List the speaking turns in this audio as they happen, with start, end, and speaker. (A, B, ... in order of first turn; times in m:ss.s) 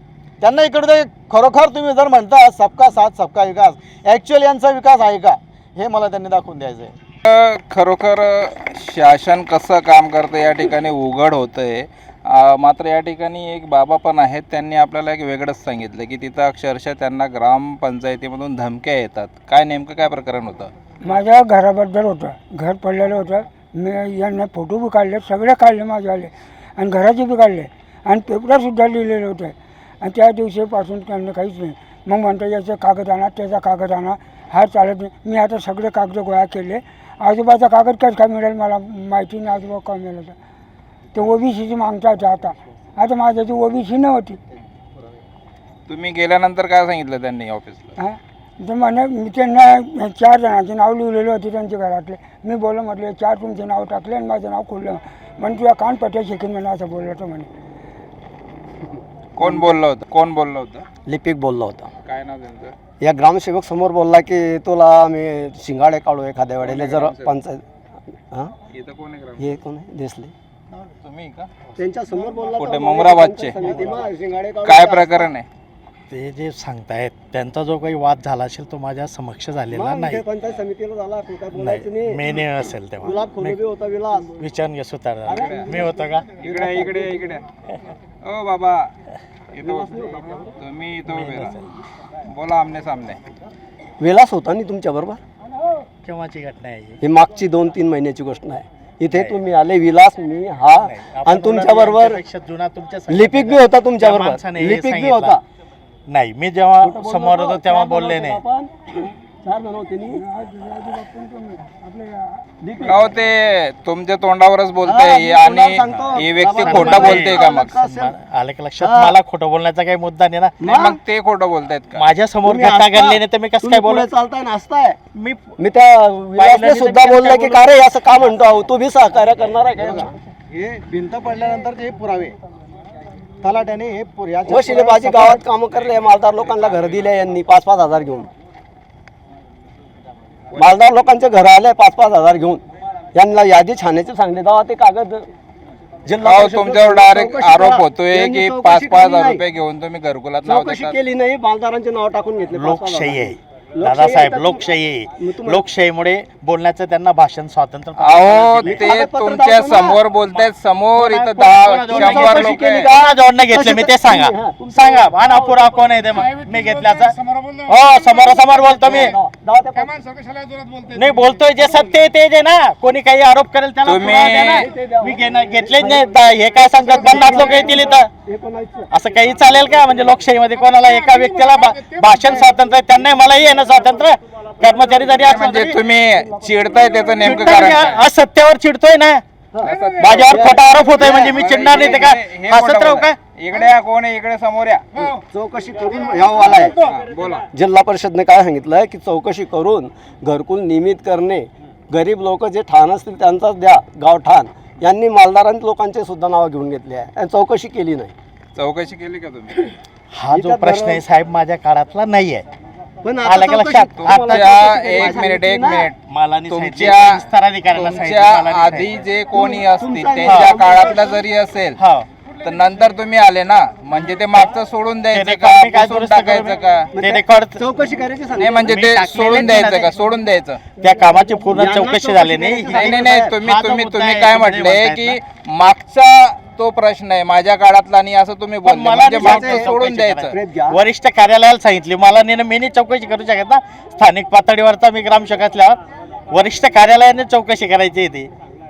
0:00.4-0:06.9 A
0:07.2-0:20.7 B
0:21.0-0:40.4 C
0:41.1-0:44.4 C
0:45.9-0:47.9 B
0:48.0-0:57.5 C
0:59.4-1:00.8 B
1:01.0-1:01.9 D
1:02.0-1:02.7 B
1:03.0-1:07.6 D
1:06.6-1:07.3 B
1:08.7-1:09.6 B
1:09.4-1:10.3 D
1:10.8-1:11.5 B
1:11.8-1:15.3 D
1:12.6-1:13.6 B
1:14.6-1:15.4 B
1:16.1-1:20.2 E
1:19.7-1:22.4 D
1:21.6-1:23.6 E
1:23.0-1:24.4 D
1:24.4-1:26.3 E
1:25.2-1:27.1 D
1:26.4-1:27.4 B
1:28.2-1:28.9 B
1:29.5-1:31.6 B
1:29.6-1:30.5 D
1:31.1-1:31.6 E
1:32.3-1:33.2 B
1:34.0-1:35.2 D
1:36.0-1:37.0 E
1:37.0-1:42.2 D
1:40.8-1:45.3 E
1:43.1-1:45.4 D
1:46.1-1:48.4 E
1:46.8-1:50.2 D
1:50.2-1:52.2 C
1:52.6-1:53.1 D
1:52.8-1:57.7 B
1:54.8-1:58.1 D
1:56.5-2:00.5 E
1:58.8-1:59.1 D
2:00.6-2:01.0 D
2:00.6-2:02.0 B
2:02.0-2:04.0 E
2:02.4-2:05.0 D
2:05.1-2:05.4 E
2:05.6-2:10.1 D
2:06.4-2:07.6 E
2:09.9-2:12.3 A
2:13.4-2:15.4 A
2:14.5-2:18.3 D
2:16.4-2:16.9 B
2:20.6-2:22.6 D
2:23.1-2:25.3 D
2:26.0-2:29.4 D
2:26.2-2:31.0 B
2:30.4-2:34.7 D
2:32.5-2:38.9 E
2:35.2-2:35.6 D
2:38.0-2:42.9 B
2:38.6-2:40.0 D
2:40.3-2:49.2 E
2:41.9-2:45.9 D
2:48.6-2:50.0 D
2:50.9-2:58.1 E
2:53.8-2:54.6 B
2:54.1-2:58.9 D
2:58.9-3:05.8 E
3:05.2-3:08.0 B
3:07.2-3:09.2 E
3:09.5-3:11.6 D
3:09.6-3:15.1 B
3:10.0-3:13.2 E
3:15.3-3:16.8 D
3:16.8-3:17.4 B
3:17.5-3:28.1 D
3:28.6-3:29.7 B
3:30.1-3:32.4 E
3:30.3-3:31.0 D
3:33.0-3:35.9 D
3:33.2-3:35.2 E
3:34.0-3:36.0 B
3:36.1-3:38.9 E
3:36.5-3:37.2 B
3:37.7-3:41.8 B
3:39.3-3:41.2 D
3:40.2-3:40.5 E
3:41.8-3:42.0 E
3:42.4-3:46.9 B
3:45.1-3:47.6 E
3:47.0-3:48.7 D
3:48.4-3:50.6 B
3:48.6-3:49.9 E
3:50.8-3:55.2 E
3:51.1-3:53.3 D
3:52.7-4:00.3 B
3:58.6-4:05.8 E
3:59.1-4:00.8 D
4:06.3-4:08.3 E